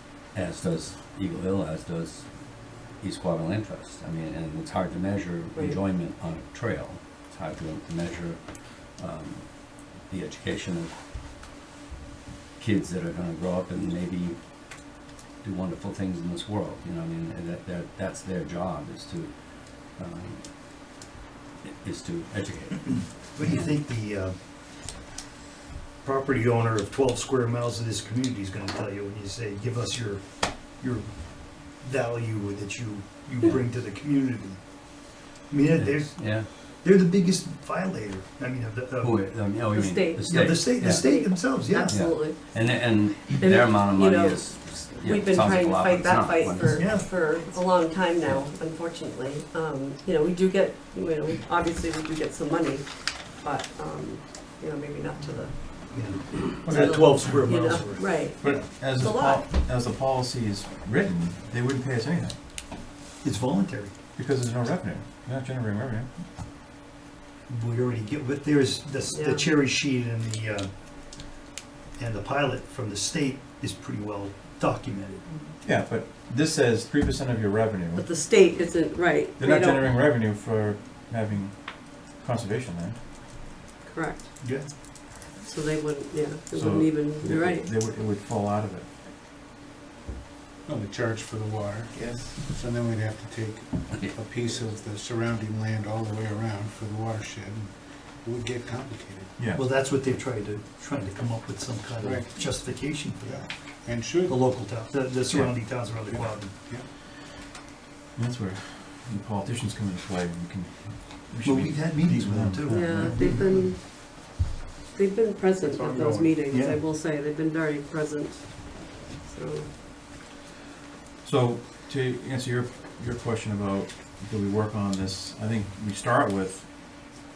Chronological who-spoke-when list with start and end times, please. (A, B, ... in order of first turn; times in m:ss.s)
0:00.3-0:11.0 A
0:12.6-0:20.8 A
0:21.6-0:23.7 A
0:23.3-0:24.4 B
0:26.0-0:34.8 B
0:35.5-0:39.5 B
0:35.7-0:36.5 A
0:39.0-0:47.1 A
0:39.6-0:42.7 C
0:40.3-0:42.1 B
0:43.3-0:56.1 C
0:46.7-0:47.1 B
0:48.2-0:48.5 A
0:55.9-0:58.2 B
0:56.6-0:57.6 D
0:56.7-0:59.5 C
0:58.2-1:02.4 D
1:03.2-1:03.9 B
1:04.2-1:06.3 D
1:07.5-1:10.7 B
1:09.1-1:09.5 C
1:12.0-1:15.4 B
1:15.6-1:18.2 D
1:18.0-1:19.9 C
1:19.4-1:23.1 D
1:23.8-1:24.5 C
1:24.4-1:24.7 B
1:25.4-1:27.7 C
1:26.5-1:29.1 D
1:30.6-1:39.4 E
1:39.4-1:39.6 D
1:39.5-1:46.5 B
1:42.0-1:44.4 E
1:46.0-1:46.9 E
1:48.2-1:53.5 D
1:51.4-1:53.7 B
1:52.7-1:53.9 C
1:54.9-1:59.7 C
1:55.6-1:56.4 E
1:56.5-1:56.8 B
2:01.2-2:06.8 D